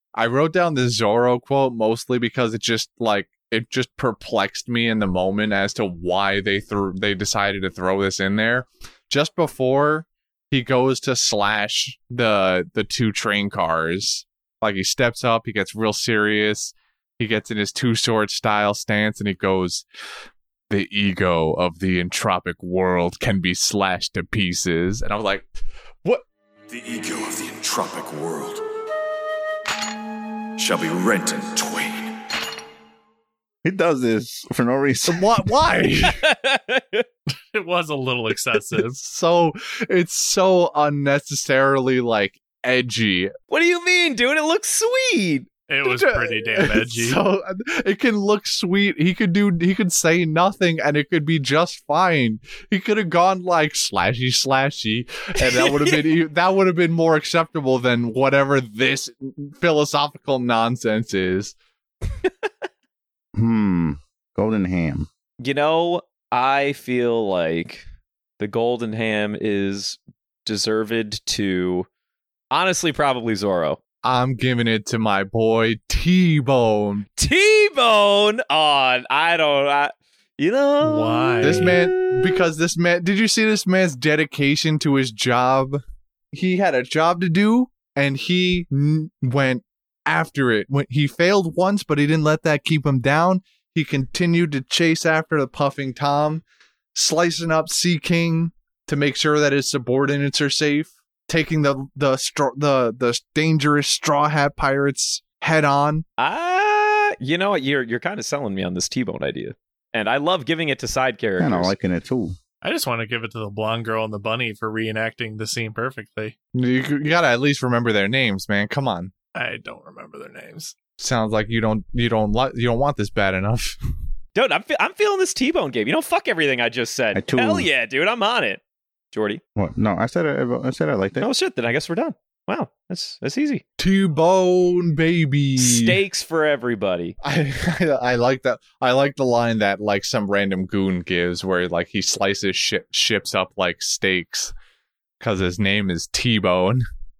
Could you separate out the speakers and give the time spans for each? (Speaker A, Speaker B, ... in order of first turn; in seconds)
Speaker A: 0.1-19.9, 20.7-25.5, 35.1-36.2, 39.0-43.3, 45.9-61.5, 74.0-77.1, 81.4-85.8, 86.3-96.4, 97.0-106.0, 116.5-119.1, 121.0-123.8, 133.8-136.0, 137.2-144.5, 145.2-146.8
Speaker B: 26.7-28.6, 30.6-32.1
Speaker C: 33.6-35.4, 63.4-65.1, 111.4-112.4, 127.1-127.7, 129.6-131.3
Speaker D: 36.0-37.1, 43.5-45.5, 55.4-56.0, 65.4-67.9, 68.4-71.9, 72.5-73.8, 77.2-82.5, 106.2-111.7, 124.3-128.6, 129.1-129.4, 131.2-133.6, 135.6-137.2
Speaker E: 37.5-39.0, 45.7-47.2, 80.8-81.9, 112.6-116.3, 119.3-120.8